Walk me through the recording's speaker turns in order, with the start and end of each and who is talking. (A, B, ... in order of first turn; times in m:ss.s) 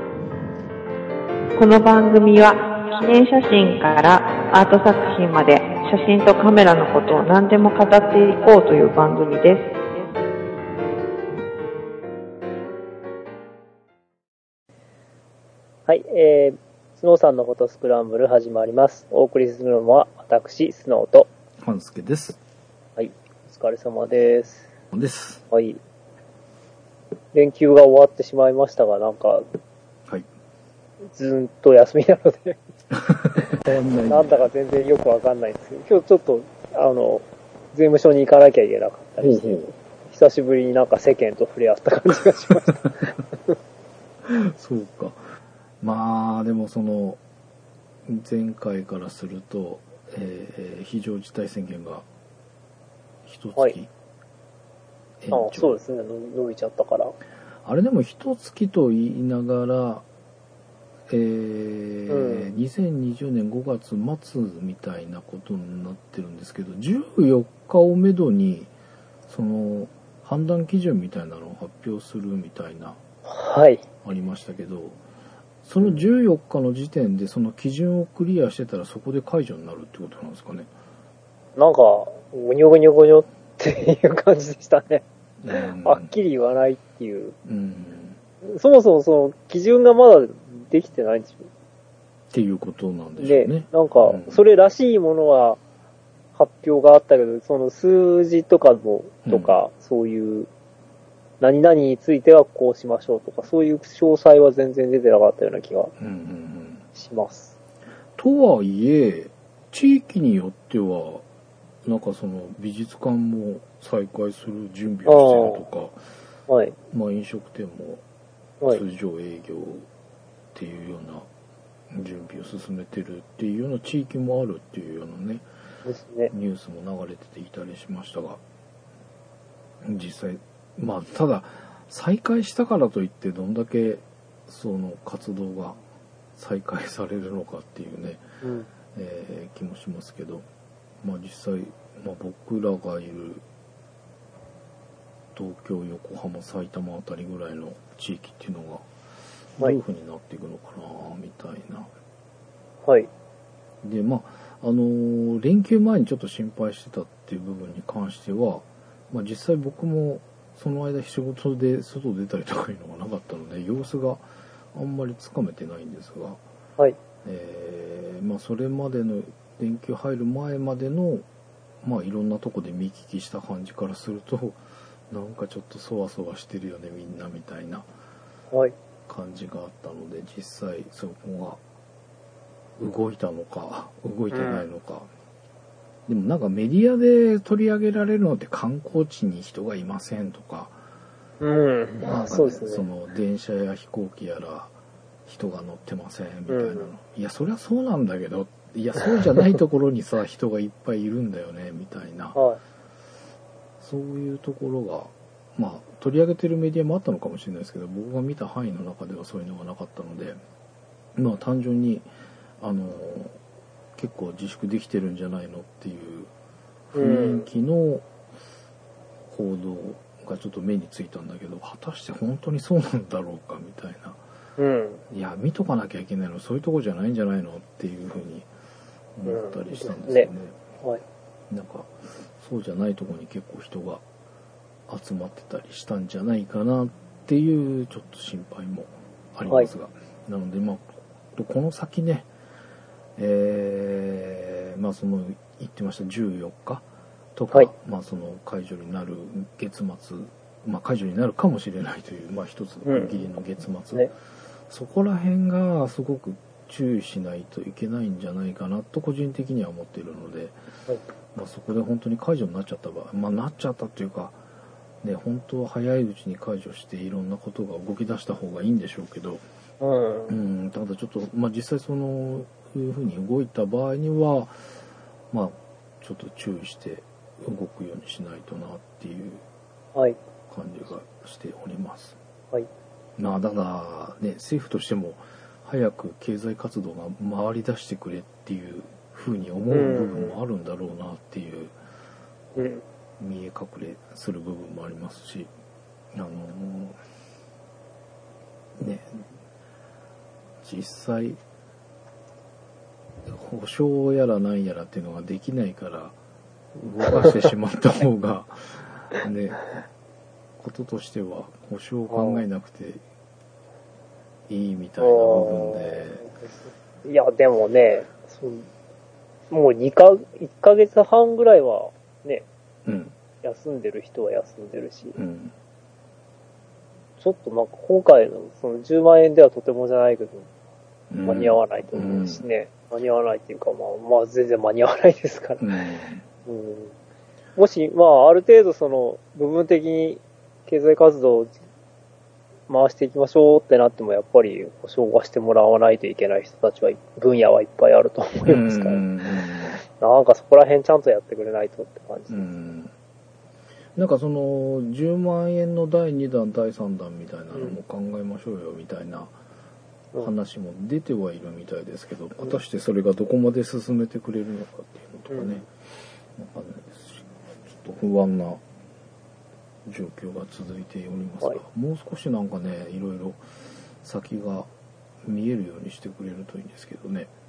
0:01.6-0:09.7 A
0:15.9-0:21.3 B
0:21.6-0:22.4 C
0:23.0-0:24.7 B
0:24.9-0:25.4 C
0:25.5-0:25.8 B
0:27.3-0:29.5 B
0:31.1-0:32.6 B
0:33.0-0:34.5 C
0:34.1-0:43.6 B
0:39.2-0:39.7 C
0:44.2-0:45.2 C
0:45.8-0:47.2 C
0:48.1-0:52.1 C
0:53.2-0:53.9 C
0:55.2-0:55.8 C
0:55.3-0:57.2 B
0:57.6-1:00.0 C
1:01.1-1:08.7 C
1:02.1-1:02.5 B
1:09.3-1:13.0 C
1:13.3-1:13.8 B
1:14.0-1:15.0 C
1:15.6-1:20.7 C
1:21.6-1:25.0 B
1:25.4-1:26.1 C
1:25.8-1:27.4 B
1:27.4-1:28.2 C
1:28.4-1:31.5 B
1:32.3-1:34.4 C
1:33.2-1:35.6 B
1:36.4-1:40.5 B
1:39.3-1:39.6 C
1:41.4-1:45.9 B
1:46.0-1:46.9 C
1:46.9-1:47.5 B
1:48.2-1:51.2 C
1:51.8-1:56.0 C
1:55.1-1:55.6 B
1:56.5-1:56.8 B
1:56.9-1:58.0 C
1:58.7-1:59.9 C
2:00.5-2:01.3 C
2:01.9-2:05.4 C
2:05.8-2:06.3 B
2:06.3-2:08.4 C
2:09.8-2:15.8 C
2:16.4-2:18.2 C
2:18.4-2:18.7 B
2:18.9-2:20.5 C
2:21.0-2:23.4 C
2:25.4-2:28.9 C
2:29.6-2:31.9 C
2:32.8-2:33.1 B
2:33.8-2:46.4 C
2:47.2-2:51.2 C
2:51.8-2:57.9 C
2:59.1-3:01.6 C
3:02.8-3:05.1 C
3:04.3-3:04.6 B
3:06.1-3:10.8 C
3:11.4-3:12.8 B
3:12.0-3:14.8 C
3:15.3-3:22.4 C
3:16.5-3:16.9 B
3:22.4-3:22.6 B
3:23.8-3:30.4 C
3:31.2-3:33.4 C
3:34.0-3:36.3 C
3:36.9-3:38.1 C
3:36.9-3:37.5 B
3:39.3-3:44.2 C
3:44.6-3:45.0 B
3:45.1-3:48.5 C
3:49.2-3:50.6 C
3:49.3-3:50.3 B
3:51.5-3:54.0 C
3:54.9-4:02.3 C
4:03.2-4:14.1 C
4:12.8-4:13.3 B
4:14.7-4:20.6 C
4:21.3-4:24.4 C
4:25.0-4:29.4 C
4:29.8-4:30.4 B
4:30.3-4:34.6 C
4:35.3-4:39.4 C
4:40.5-4:42.2 C
4:43.2-4:51.8 C
4:49.7-4:50.4 B
4:52.6-4:52.8 B
4:53.2-4:55.5 C
4:56.1-4:57.0 C
4:58.8-4:59.3 C
5:00.6-5:01.4 C
5:03.3-5:06.2 C
5:06.8-5:09.7 C
5:10.6-5:13.0 C
5:12.1-5:12.4 B
5:14.5-5:16.2 C
5:15.0-5:18.7 B
5:19.5-5:22.5 B
5:22.8-5:23.2 C
5:23.4-5:25.2 B
5:25.2-5:25.5 C
5:27.2-5:30.5 B
5:31.1-5:32.4 C
5:31.2-5:35.7 B
5:35.6-5:36.2 C
5:36.5-5:36.9 B
5:37.6-5:41.6 B
5:42.7-5:49.0 B
5:48.4-5:49.8 C
5:49.8-5:52.5 B
5:52.3-5:52.9 C
5:54.0-5:59.4 C
6:00.2-6:05.7 C
6:05.3-6:05.6 B
6:06.4-6:08.6 C
6:09.9-6:13.4 C
6:14.0-6:14.7 C
6:15.2-6:17.3 C